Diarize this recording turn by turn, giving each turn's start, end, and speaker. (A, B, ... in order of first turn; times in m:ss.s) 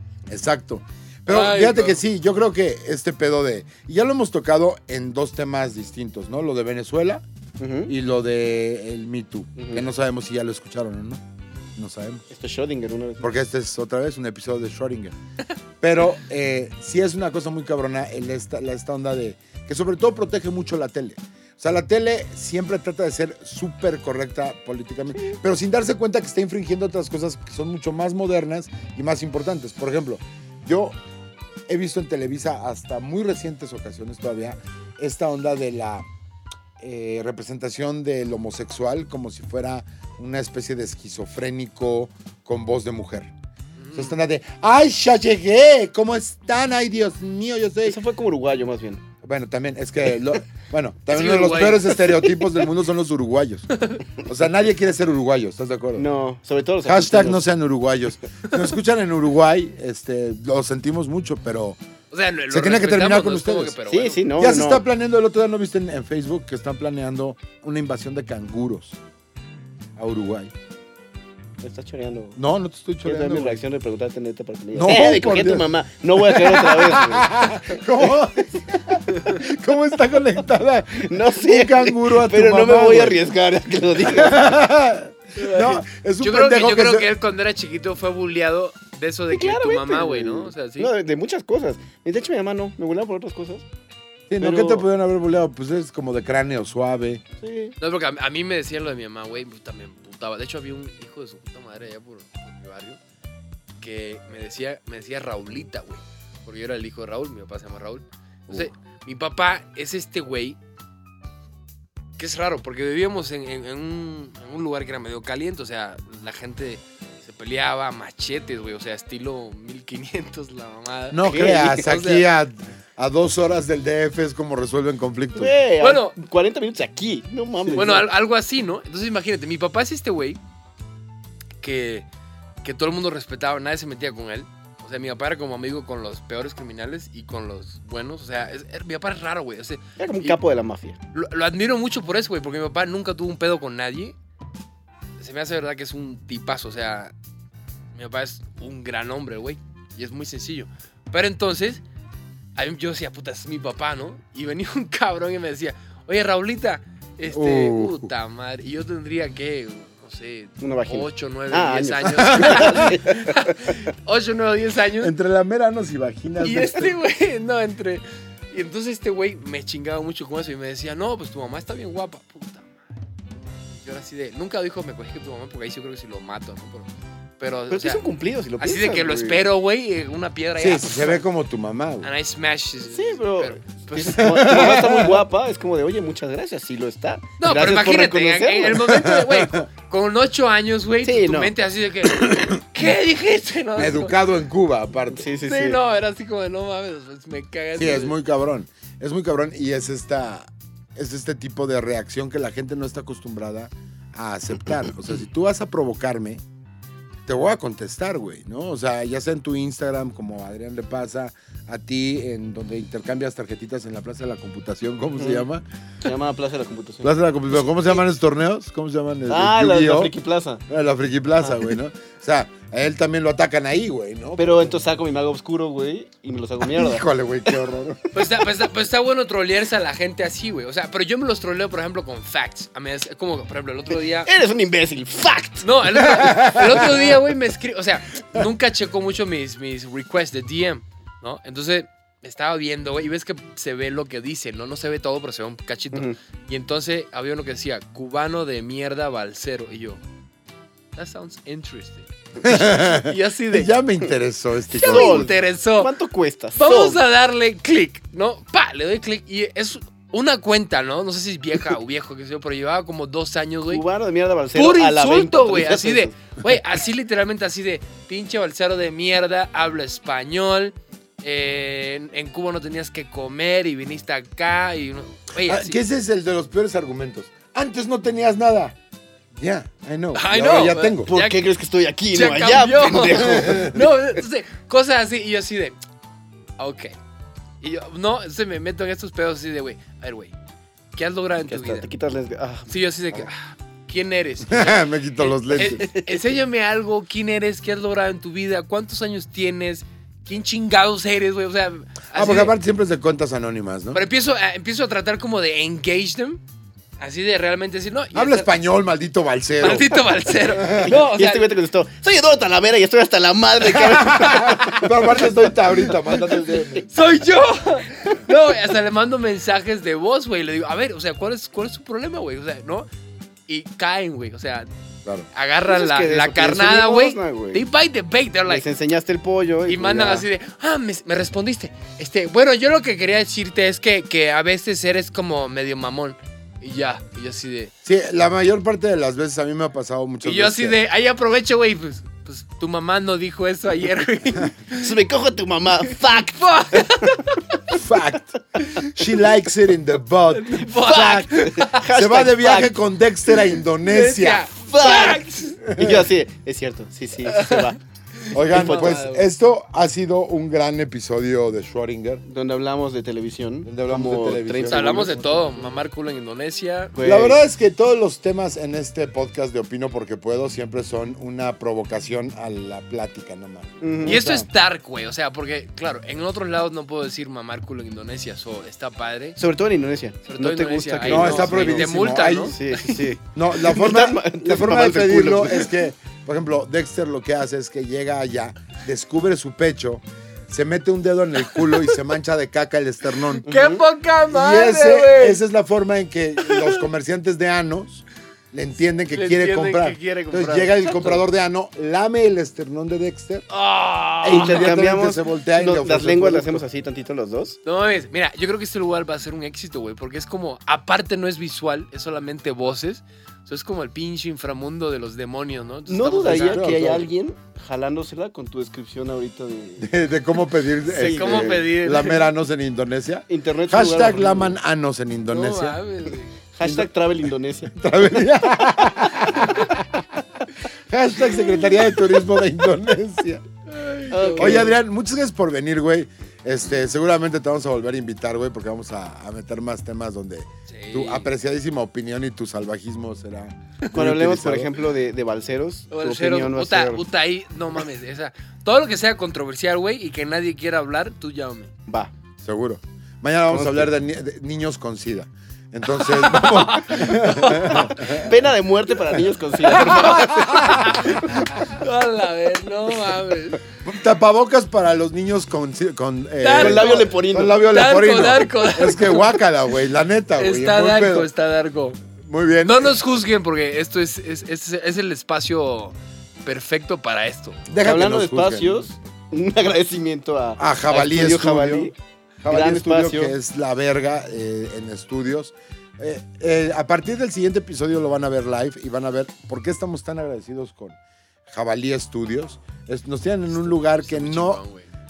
0:00.3-0:07.2 A
0:01.3-0:02.0 B
0:07.6-0:07.9 C
0:07.9-0:11.2 A
0:09.6-0:09.8 C
0:11.8-0:12.2 A
0:12.3-0:13.3 C
0:13.2-0:15.2 A
0:15.8-0:31.0 A
0:31.7-0:36.0 A
0:36.8-0:43.3 A
0:43.8-0:44.1 B
0:43.9-0:48.0 A
0:47.8-0:49.0 C
0:49.2-0:56.0 A
0:51.1-0:52.3 B
0:53.7-0:54.0 B
0:56.0-0:57.4 C
0:56.8-1:01.8 A
1:02.1-1:04.3 B
1:02.5-1:03.8 A
1:03.9-1:04.8 C
1:04.4-1:09.0 A
1:10.0-1:10.5 A
1:11.6-1:12.4 C
1:12.4-1:13.6 A
1:13.0-1:17.4 C
1:14.7-1:15.7 A
1:16.2-1:23.2 A
1:21.0-1:24.4 C
1:24.0-1:27.1 A
1:25.4-1:30.9 B
1:29.3-1:33.6 C
1:34.3-1:37.2 A
1:34.4-1:34.8 C
1:37.4-1:37.7 C
1:37.8-1:43.0 B
1:43.8-1:50.6 B
1:52.2-2:02.2 B
2:01.1-2:05.5 A
2:01.2-2:01.9 C
2:05.3-2:08.1 C
2:05.8-2:06.1 B
2:07.7-2:10.4 B
2:11.6-2:12.0 B
2:12.6-2:20.4 B
2:20.0-2:21.0 C
2:21.1-2:24.2 B
2:25.2-2:27.1 B
2:27.9-2:31.8 B
2:32.6-2:45.1 B
2:37.3-2:38.1 A
2:40.6-2:43.8 C
2:42.2-2:42.9 A
2:45.0-2:47.0 A
2:46.4-2:52.8 B
2:53.7-2:58.0 B
2:57.7-2:59.4 C
2:58.6-3:01.2 B
3:00.6-3:02.1 A
3:02.0-3:04.3 B
3:02.9-3:09.0 C
3:04.2-3:05.2 A
3:07.4-3:14.2 B
3:08.8-3:09.7 A
3:11.0-3:11.5 C
3:13.8-3:15.3 A
3:15.1-3:15.8 C
3:15.5-3:18.1 B
3:17.7-3:26.4 A
3:27.2-3:35.6 A
3:35.2-3:35.4 C
3:36.0-3:38.0 C
3:37.0-3:40.1 A
3:39.3-3:40.6 C
3:40.7-3:44.7 A
3:41.4-3:41.7 C
3:44.4-3:47.1 C
3:46.6-3:48.0 A
3:48.1-3:54.3 B
3:54.2-3:55.8 C
3:55.6-4:10.0 B
3:56.2-3:56.6 A
3:56.4-3:57.1 C
4:10.9-4:13.7 B
4:12.4-4:15.3 A
4:14.8-4:15.9 B
4:14.8-4:17.0 C
4:16.6-4:23.8 B
4:23.7-4:26.2 C
4:24.5-4:35.8 B
4:35.4-4:38.8 A
4:39.3-4:41.1 A
4:40.1-4:41.4 B
4:41.0-4:43.8 C
4:42.1-4:45.8 B
4:43.5-4:43.8 A
4:46.6-4:46.9 B
4:47.6-4:50.3 B
4:50.9-4:51.9 B
4:51.4-4:52.7 C
4:52.7-5:02.5 B
4:54.4-4:55.8 A
4:55.6-4:56.3 C
5:02.1-5:04.0 A
5:03.9-5:06.4 B
5:07.0-5:08.5 B
5:08.1-5:10.9 A
5:09.6-5:11.5 B
5:10.7-5:16.8 C
5:13.8-5:16.9 A
5:16.9-5:22.9 B
5:23.5-5:24.7 B
5:25.3-5:28.6 B
5:25.6-5:27.6 C
5:28.5-5:30.2 C
5:29.6-5:37.7 B
5:37.8-5:40.8 A
5:40.2-5:44.9 B
5:44.7-5:47.8 C
5:45.9-5:47.4 B
5:47.7-5:51.0 A
5:48.6-5:48.9 B
5:50.3-5:51.8 B
5:50.7-5:53.5 C
5:51.9-5:54.5 A
5:53.8-5:55.7 B
5:54.6-5:57.8 C
5:55.6-5:56.0 A
5:57.2-5:57.7 B
5:58.2-5:59.3 B
5:58.3-6:02.2 A
5:58.5-5:59.0 C
6:02.2-6:05.5 C
6:03.6-6:05.6 A
6:04.6-6:06.9 B
6:06.9-6:07.4 C
6:07.0-6:14.5 A
6:13.8-6:14.2 C
6:14.0-6:19.4 B
6:19.4-6:21.9 C
6:20.3-6:23.1 B
6:21.0-6:22.5 A
6:22.4-6:25.7 C
6:23.3-6:33.5 A
6:31.5-6:32.0 B
6:33.4-6:35.4 B
6:33.5-6:33.8 C
6:34.3-6:43.4 A
6:36.4-6:36.8 B
6:39.1-6:41.2 B
6:43.5-6:44.7 B
6:44.2-6:46.6 A
6:44.3-6:47.6 C
6:47.6-6:56.6 B
6:55.9-6:59.9 C
6:56.2-6:57.1 A
6:59.8-7:05.8 A
7:00.8-7:01.6 C
7:00.9-7:02.3 B
7:03.3-7:04.6 C
7:05.3-7:06.3 B
7:06.5-7:07.8 C
7:06.6-7:06.9 A
7:07.7-7:13.4 A
7:13.7-7:14.7 B
7:14.1-7:14.8 C
7:14.4-7:24.8 A
7:20.7-7:21.3 B
7:23.9-7:27.0 C
7:25.9-7:31.7 B
7:32.4-7:38.4 A
7:33.5-7:33.9 C
7:36.0-7:37.9 B
7:37.4-7:41.3 C
7:39.6-7:43.6 B
7:39.9-7:41.6 A
7:43.8-7:51.3 A
7:46.4-7:49.4 B
7:46.5-7:47.6 C
7:50.4-7:52.0 B
7:52.2-7:52.9 A
7:52.6-7:57.6 B
7:57.7-7:58.9 A
7:57.8-8:01.9 C
8:00.6-8:01.9 A
8:02.4-8:14.6 A
8:02.5-8:03.4 C
8:13.5-8:14.9 B